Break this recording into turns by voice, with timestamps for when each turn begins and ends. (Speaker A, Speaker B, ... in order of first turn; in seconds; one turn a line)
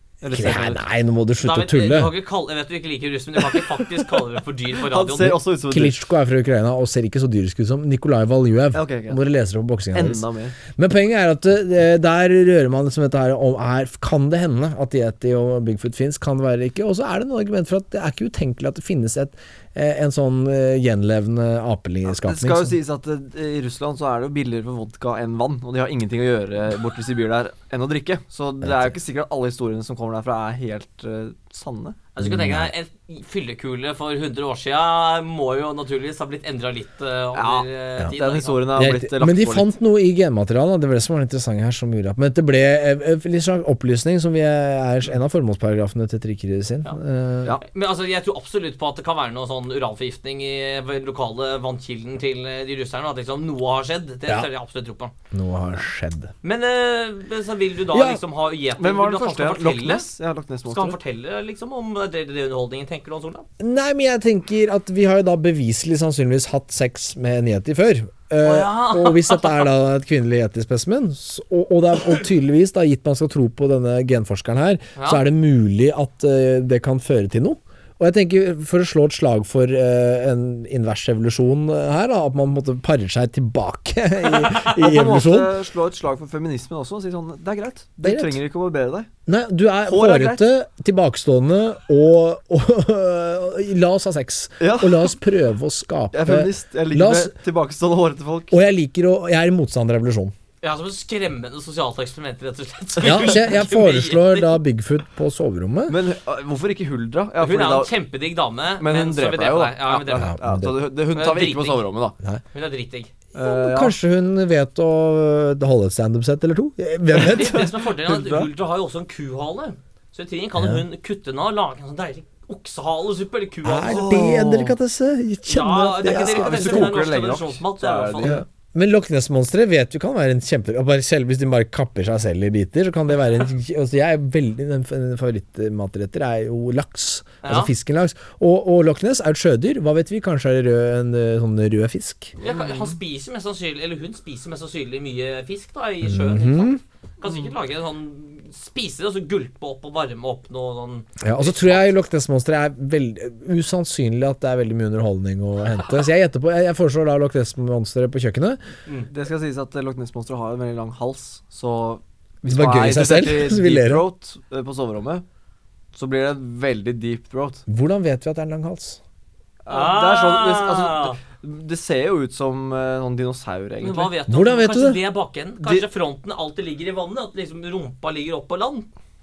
Speaker A: 0.2-0.8
Speaker B: 0.3-2.1
Speaker C: 1.4-5.4
Speaker A: 4.9-6.0
Speaker B: 5.7-10.2
Speaker A: 8.7-9.2
Speaker A: 9.9-10.6
Speaker B: 10.8-22.8
Speaker A: 22.1-32.0
Speaker B: 28.6-28.9
Speaker C: 32.1-38.7
Speaker B: 32.2-32.7
Speaker A: 37.4-39.7
Speaker B: 38.8-47.6
Speaker C: 47.6-55.1
Speaker B: 55.3-56.3
Speaker C: 56.4-60.1
Speaker B: 57.9-58.2
Speaker A: 58.8-61.0
Speaker C: 60.7-63.5
Speaker B: 63.6-85.5
Speaker C: 68.4-69.7
Speaker C: 75.0-75.2
Speaker A: 84.7-89.1
Speaker B: 88.0-88.4
Speaker B: 89.3-97.3
Speaker A: 89.8-90.4
Speaker A: 94.6-95.1
Speaker A: 96.1-98.6
Speaker B: 98.5-100.3
Speaker C: 100.6-104.6
Speaker B: 103.0-106.0
Speaker A: 105.9-107.9
Speaker C: 107.4-110.3
Speaker A: 108.8-112.2
Speaker B: 110.1-110.7
Speaker C: 111.1-111.9
Speaker C: 112.5-113.1
Speaker A: 113.3-114.0
Speaker B: 113.4-117.7
Speaker A: 117.1-118.5
Speaker C: 117.2-124.3
Speaker B: 120.6-120.8
Speaker B: 123.6-126.9
Speaker A: 123.8-124.8
Speaker C: 125.5-128.4
Speaker A: 126.2-128.4
Speaker B: 128.2-142.4
Speaker C: 137.4-137.7
Speaker C: 142.4-151.9
Speaker A: 142.4-142.7
Speaker B: 146.0-146.8
Speaker B: 151.2-158.6
Speaker A: 159.1-165.2
Speaker B: 162.5-164.0
Speaker A: 165.9-167.7
Speaker B: 167.7-169.0
Speaker A: 169.7-174.1
Speaker C: 169.7-171.2
Speaker C: 173.8-178.9
Speaker B: 174.3-175.0
Speaker A: 175.6-175.9